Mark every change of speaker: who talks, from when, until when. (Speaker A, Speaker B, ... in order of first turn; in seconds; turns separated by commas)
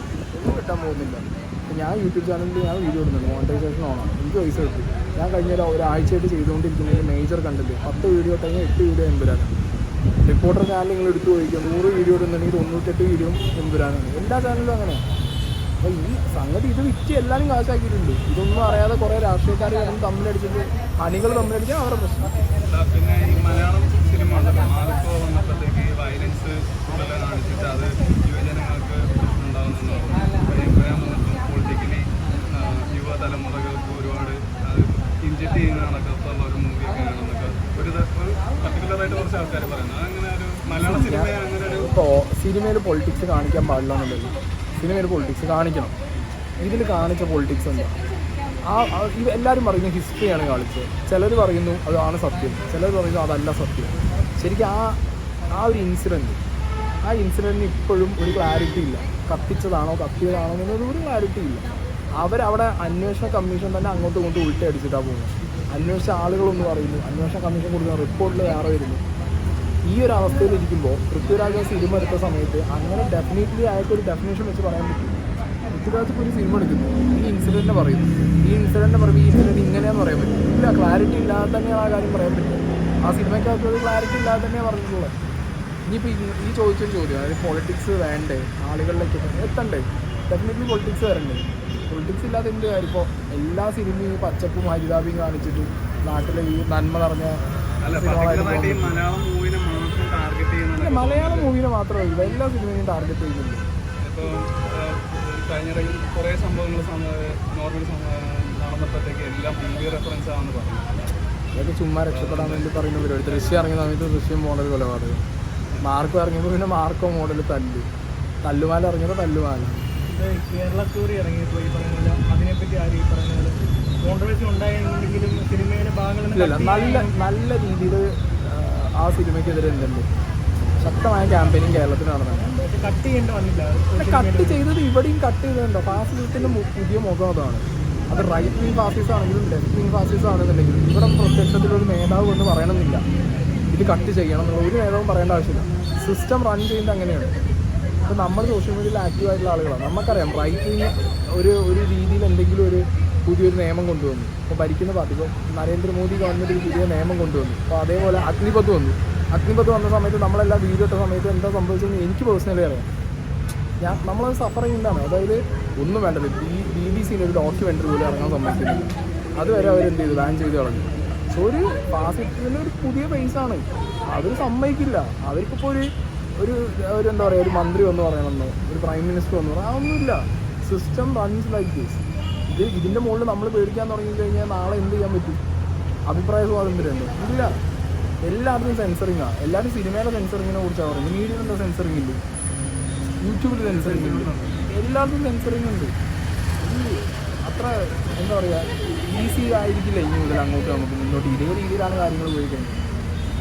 Speaker A: 0.3-9.5, Speaker A: 10.3-15.0, Speaker A: 15.8-22.3, Speaker B: 22.6-41.9, Speaker A: 40.8-41.3, Speaker A: 41.9-45.9, Speaker A: 46.6-48.0, Speaker A: 48.7-55.0, Speaker A: 55.5-56.4, Speaker A: 57.0-61.7, Speaker A: 62.2-69.0, Speaker A: 69.9-75.2, Speaker A: 75.7-85.1, Speaker A: 85.9-99.0, Speaker B: 97.8-101.6, Speaker A: 100.8-103.7, Speaker B: 104.0-111.0, Speaker A: 111.5-115.2, Speaker B: 112.1-112.7, Speaker A: 115.8-117.9, Speaker A: 118.4-119.9, Speaker C: 120.0-127.2, Speaker A: 126.3-130.1, Speaker A: 130.8-132.5, Speaker C: 132.6-134.7, Speaker A: 134.0-143.1, Speaker A: 143.7-147.3, Speaker A: 148.1-162.9, Speaker A: 163.8-185.4, Speaker A: 186.1-187.6, Speaker A: 188.2-192.2, Speaker A: 193.2-195.9, Speaker B: 193.6-194.6, Speaker A: 196.6-202.8